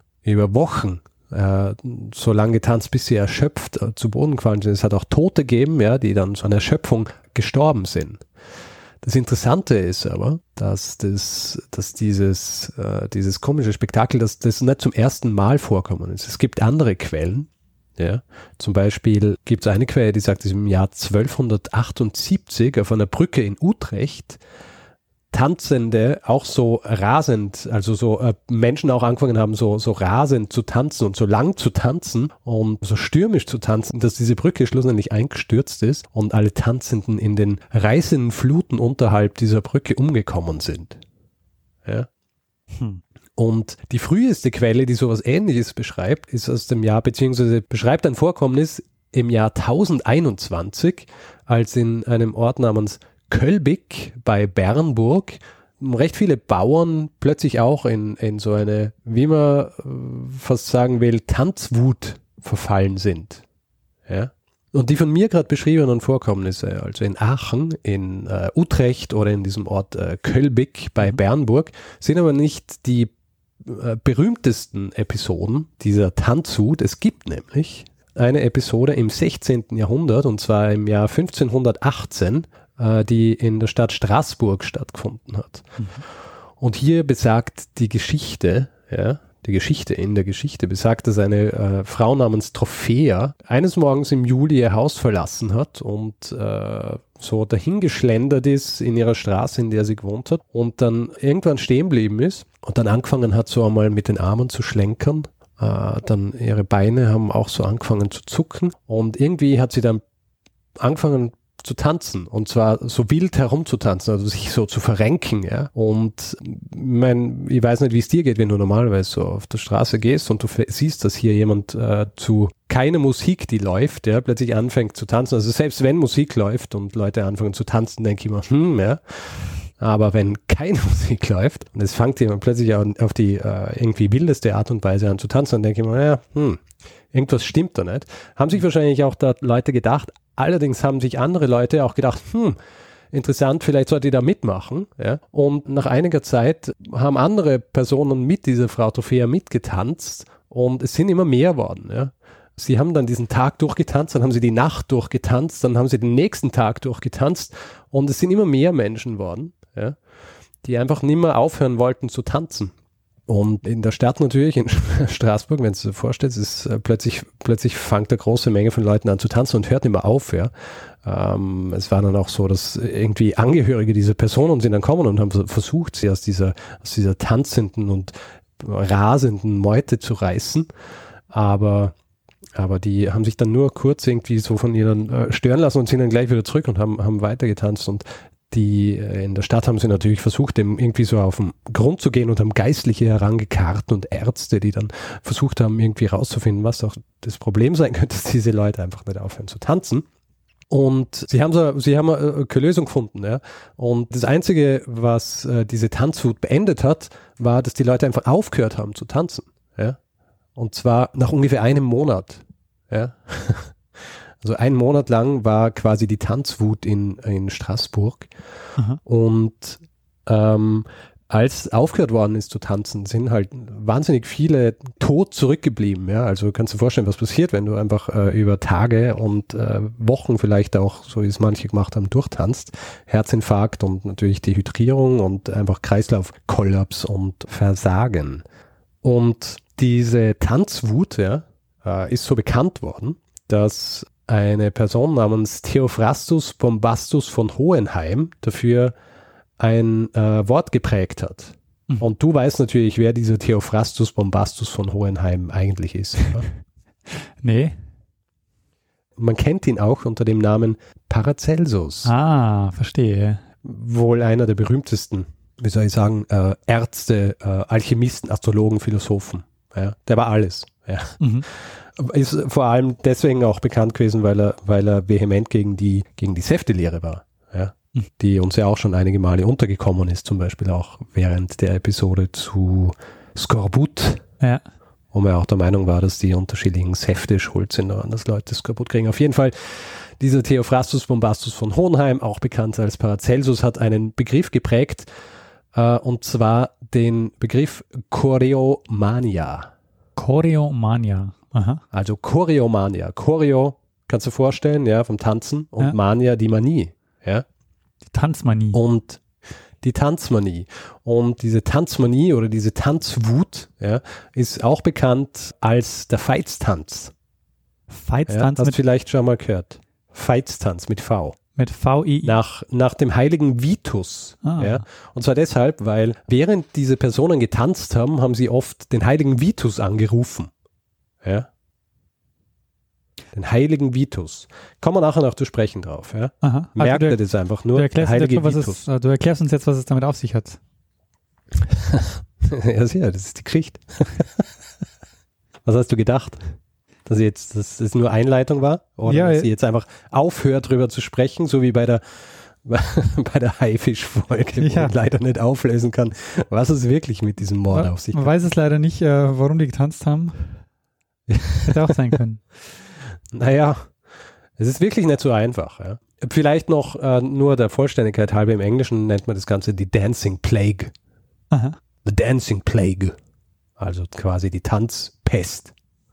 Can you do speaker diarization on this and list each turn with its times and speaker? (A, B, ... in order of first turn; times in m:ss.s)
0:00.2-0:08.2 A
0:09.0-0:24.4 A
0:25.3-0:41.0 A
0:43.4-1:03.4 A
1:04.1-1:13.1 A
1:13.6-1:25.8 A
1:26.6-1:50.0 A
1:50.8-2:22.6 A
2:23.1-2:40.0 A
2:40.6-2:42.7 A
2:43.3-2:50.5 A
2:51.0-3:00.7 A
3:01.3-3:01.9 A
3:02.6-3:20.0 A
3:20.7-3:30.0 A
3:30.6-3:33.8 A
3:34.4-3:38.3 A
3:39.0-3:58.4 A
3:59.0-4:09.0 A
4:09.6-4:16.5 A
4:17.4-4:17.8 B
4:19.2-4:22.1 A
4:22.0-4:23.4 B
4:23.6-4:44.2 A
4:31.2-4:31.5 B
4:45.1-4:55.1 A
4:55.7-4:59.7 A
5:00.2-5:01.8 B
5:01.9-5:07.4 A
5:08.1-5:08.8 B
5:08.7-5:09.2 A
5:09.8-5:17.1 A
5:17.9-5:18.8 B
5:18.3-5:21.4 A
5:21.6-5:22.4 B
5:22.2-5:30.5 A
5:24.4-5:24.8 B
5:31.2-5:31.5 A
5:33.3-5:38.9 A
5:36.4-5:37.2 B
5:37.7-5:40.6 B
5:41.8-5:44.4 A
5:45.6-5:46.5 A
5:47.1-5:52.0 A
5:49.1-5:49.5 B
5:52.6-5:58.3 A
5:54.6-5:55.0 B
5:57.7-6:00.5 B
6:01.3-6:01.7 A
6:01.6-6:02.4 B
6:03.3-6:04.0 A
6:04.6-6:10.9 A
6:11.5-6:11.8 B
6:12.0-6:13.2 A
6:13.8-6:15.7 A